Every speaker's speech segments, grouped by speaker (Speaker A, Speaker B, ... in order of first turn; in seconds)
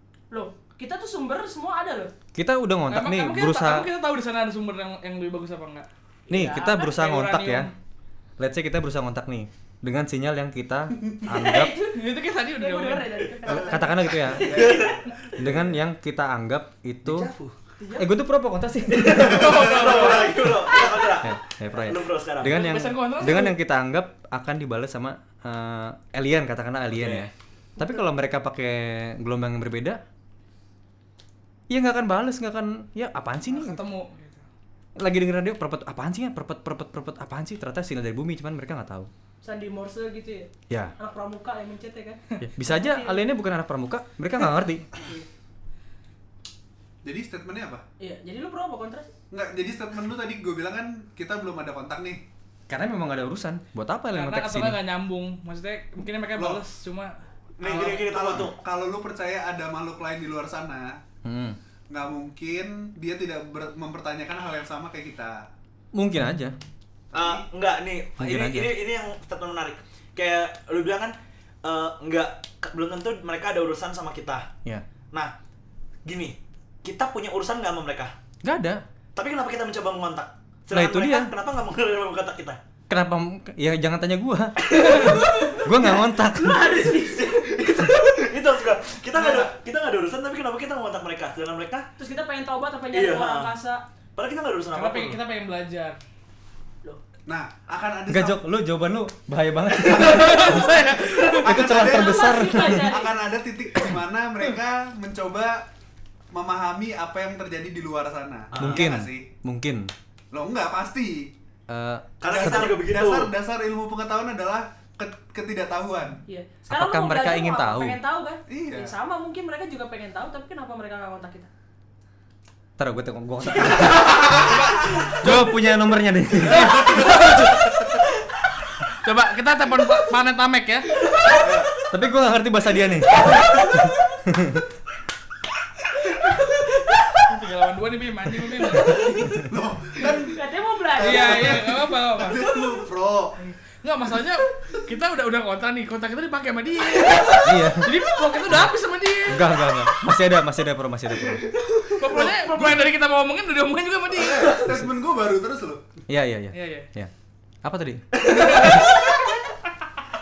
Speaker A: 0.3-2.1, 11.3-14.4, 17.8-18.1, 39.4-43.2, 48.0-49.1, 84.9-87.4, 92.0-93.8, 101.7-103.2, 116.3-121.5, 140.1-141.7
Speaker B: 2.4-3.9, 6.3-7.7, 8.4-11.7, 13.4-14.8, 15.4-17.3, 18.0-19.7, 21.2-30.0, 31.7-33.8, 35.0-39.1, 42.4-44.9, 52.7-54.8, 61.2-61.6, 65.9-66.6, 68.2-68.7, 78.4-78.8, 80.7-81.3, 82.9-86.8, 98.1-103.0, 108.6-109.9, 111.7-112.8, 116.7-118.0, 122.8-127.4, 131.9-134.7, 147.4-147.9, 149.3-151.4, 156.1-157.1, 157.6-158.7
Speaker C: 2.9-5.9, 6.4-7.7, 11.8-13.2, 19.1-20.9, 22.4-23.6, 33.5-34.5, 54.1-57.1, 57.7-58.0, 94.7-96.0, 100.0-101.5, 126.5-127.7, 129.0-131.2, 137.2-139.4, 141.0-142.7, 143.4-150.1, 151.9-154.6, 156.5-156.9, 158.3-159.1
Speaker D: 14.2-15.7, 47.0-47.8, 49.3-52.2, 56.4-56.6, 57.6-61.0, 61.9-65.5, 67.1-67.4, 97.3-98.4, 99.8-105.7, 106.3-109.3, 110.3-111.3, 112.2-116.2, 118.5-119.0, 124.1-125.2, 126.5-127.1, 131.3-131.7, 139.4-140.4, 141.0-143.4, 152.0-152.8, 154.1-155.9
Speaker E: 14.3-15.2, 17.1-17.6, 18.9-22.7, 26.9-27.3, 57.6-58.5, 67.1-74.5, 76.0-78.1, 79.2-82.6, 86.9-91.9, 92.9-93.5, 94.2-95.2, 108.5-109.0, 112.2-113.3